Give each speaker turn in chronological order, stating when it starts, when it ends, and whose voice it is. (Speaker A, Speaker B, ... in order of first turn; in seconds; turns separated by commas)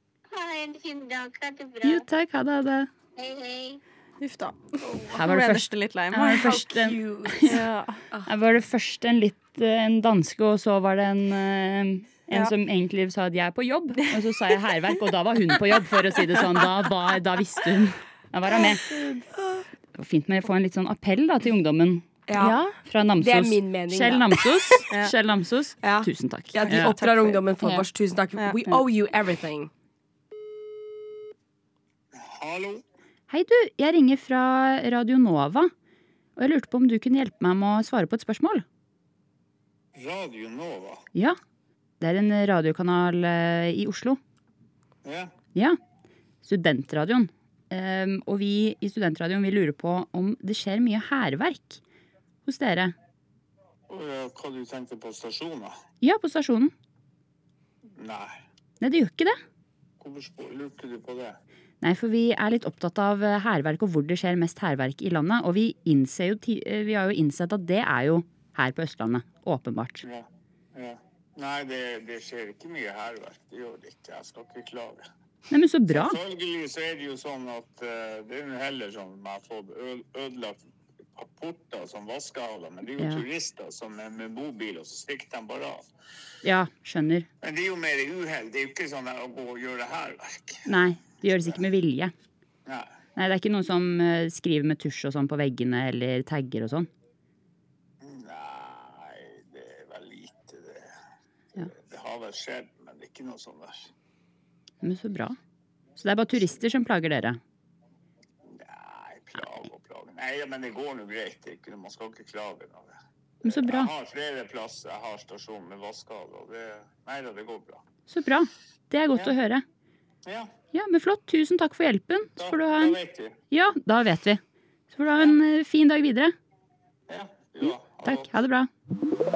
Speaker A: 0.3-2.0, Speaker B: 1.8-2.9, Speaker A: 3.1-3.8, Speaker C: 4.2-6.6, Speaker D: 4.8-5.2, Speaker B: 5.1-7.6, Speaker D: 6.3-7.6, Speaker C: 7.4-8.0, Speaker B: 8.3-18.9, Speaker B: 20.0-26.9, Speaker D: 22.3-22.5, Speaker D: 23.2-24.8, Speaker D: 25.8-29.7, Speaker C: 26.7-27.4, Speaker C: 28.4-28.8, Speaker E: 32.1-32.8, Speaker B: 33.3-35.7, Speaker B: 36.4-38.6, Speaker E: 39.9-41.0, Speaker B: 42.0-44.2, Speaker E: 45.0-45.3, Speaker B: 46.4-51.8, Speaker B: 52.5-52.9, Speaker E: 53.9-55.8, Speaker B: 56.0-56.7, Speaker E: 58.0-58.4, Speaker B: 58.8-59.4, Speaker E: 60.0-61.4, Speaker B: 61.8-70.0, Speaker E: 70.0-75.0, Speaker B: 75.5-76.2, Speaker E: 75.9-85.9, Speaker B: 83.0-83.2, Speaker B: 86.4-87.3, Speaker E: 87.4-90.6, Speaker B: 90.7-92.1, Speaker E: 91.2-91.6, Speaker E: 92.7-92.9, Speaker B: 93.2-96.9, Speaker E: 98.0-100.9, Speaker E: 101.6-103.9, Speaker B: 104.8-105.4, Speaker B: 106.0-107.4, Speaker E: 108.5-117.8, Speaker B: 113.4-113.9, Speaker B: 118.1-119.6, Speaker E: 120.2-120.5, Speaker B: 120.7-123.0, Speaker E: 122.4-123.4, Speaker B: 123.5-124.4, Speaker B: 124.9-126.3, Speaker E: 127.1-128.3, Speaker B: 127.6-128.7